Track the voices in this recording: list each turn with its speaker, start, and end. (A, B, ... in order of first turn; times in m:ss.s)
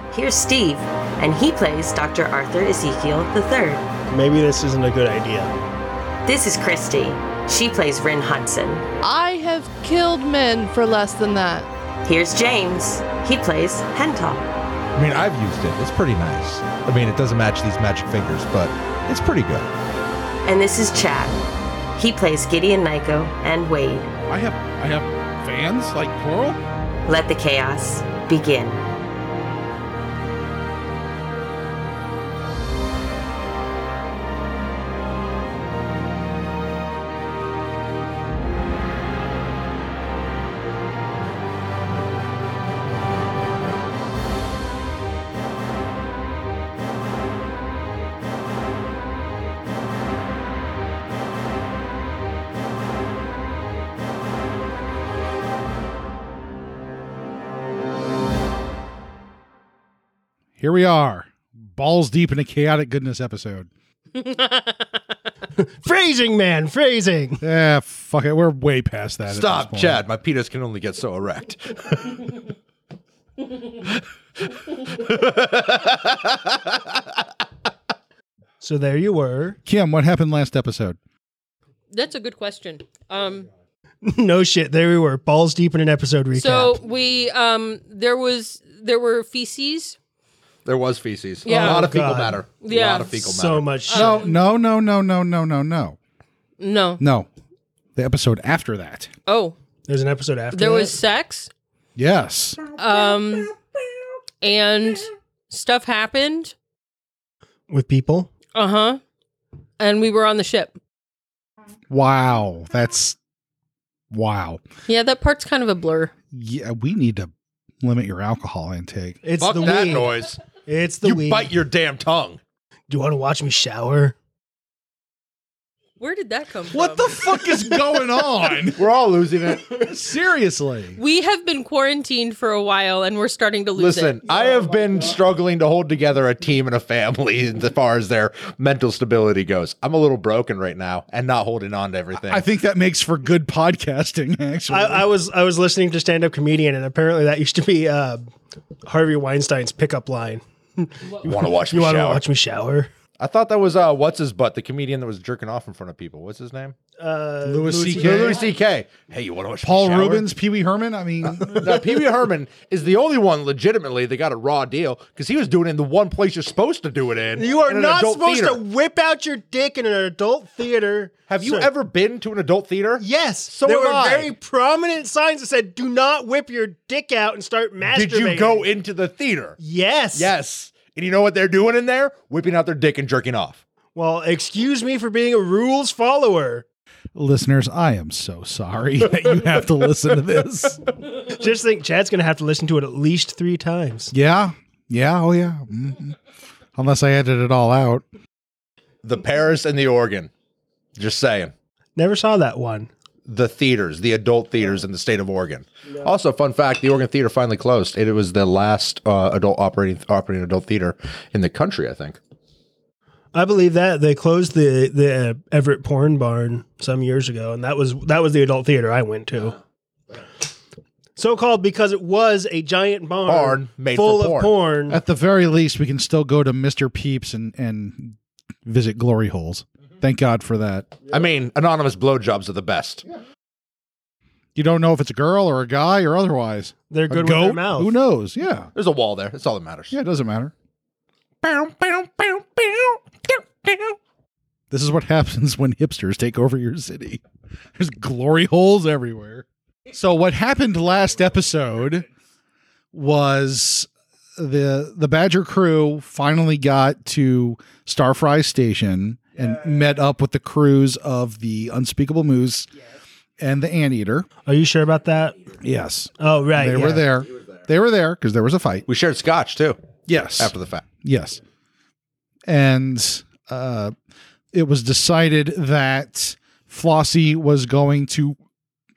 0:00.1-0:03.9 A
0:04.1-0:05.5 B
0:06.3-0:08.9 A
0:09.0-0:11.7 C
0:12.0-0:14.4 A
0:15.0-0:19.7 D
0:20.4-0:21.4 A
0:22.0-0:24.1 A
0:24.3-0:26.6 E
0:27.1-0:28.8 A
1:00.6-1:03.7 E
1:04.2-1:05.0 F
1:05.6-1:07.4 B
1:07.4-1:10.0 E
1:09.3-1:12.3 D
1:13.7-1:16.8 D
1:18.6-1:19.6 B
1:19.7-1:21.0 E
1:21.9-1:23.5 F
1:24.0-1:26.8 B
1:26.3-1:30.0 F
1:30.7-1:33.7 D
1:31.4-1:31.9 F
1:31.5-1:32.4 B
1:32.6-1:33.1 F
1:33.1-1:34.2 B
1:33.9-1:34.4 F
1:33.9-1:36.0 E
1:36.6-1:37.0 F
1:37.0-1:37.3 E
1:38.0-1:39.1 E
1:39.3-1:39.5 F
1:39.9-1:41.0 B
1:40.5-1:41.5 F
1:42.0-1:42.6 E
1:42.8-1:43.5 F
1:44.4-1:46.5 F
1:47.7-1:48.3 B
1:48.5-1:49.0 F
1:49.8-1:50.8 F
1:51.9-1:53.2 E
1:54.1-1:54.6 E
1:54.9-1:56.1 F
1:56.3-1:59.2 E
1:59.2-2:01.5 B
1:59.4-2:00.4 D
2:01.0-2:02.4 D
2:02.9-2:04.2 B
2:06.0-2:07.1 F
2:06.7-2:08.8 E
2:08.8-2:09.9 D
2:09.7-2:11.0 E
2:11.0-2:14.2 F
2:13.8-2:22.4 D
2:22.1-2:25.1 E
2:24.7-2:28.2 B
2:28.9-2:32.9 B
2:31.2-2:32.2 D
2:33.2-2:36.8 D
2:37.0-2:38.5 B
2:37.4-2:38.4 E
2:37.9-2:40.3 D
2:39.6-2:41.8 E
2:41.5-2:48.6 D
2:47.4-2:51.7 B
2:51.3-2:54.3 D
2:53.0-2:58.7 B
2:57.9-2:59.6 D
2:59.6-3:00.3 B
3:00.1-3:03.6 D
3:04.0-3:06.6 B
3:07.2-3:10.8 E
3:11.3-3:14.1 B
3:14.1-3:16.2 E
3:16.8-3:18.0 E
3:19.0-3:20.3 D
3:21.0-3:21.5 D
3:22.0-3:22.9 B
3:23.2-3:32.2 D
3:33.3-3:39.6 B
3:41.2-3:45.0 B
3:43.2-3:44.5 D
3:44.9-3:51.0 E
3:51.1-3:53.1 D
3:54.6-3:58.7 E
3:56.9-3:58.0 B
3:58.8-4:00.0 D
3:59.9-4:00.5 E
4:01.4-4:04.0 D
4:04.7-4:07.2 E
4:07.8-4:12.1 E
4:12.9-4:22.7 E
4:23.4-4:24.3 E
4:24.4-4:25.4 B
4:25.6-4:28.8 E
4:26.2-4:27.0 B
4:28.9-4:29.8 D
4:30.1-4:31.4 E
4:30.4-4:30.8 D
4:32.5-4:33.9 E
4:34.5-4:38.4 E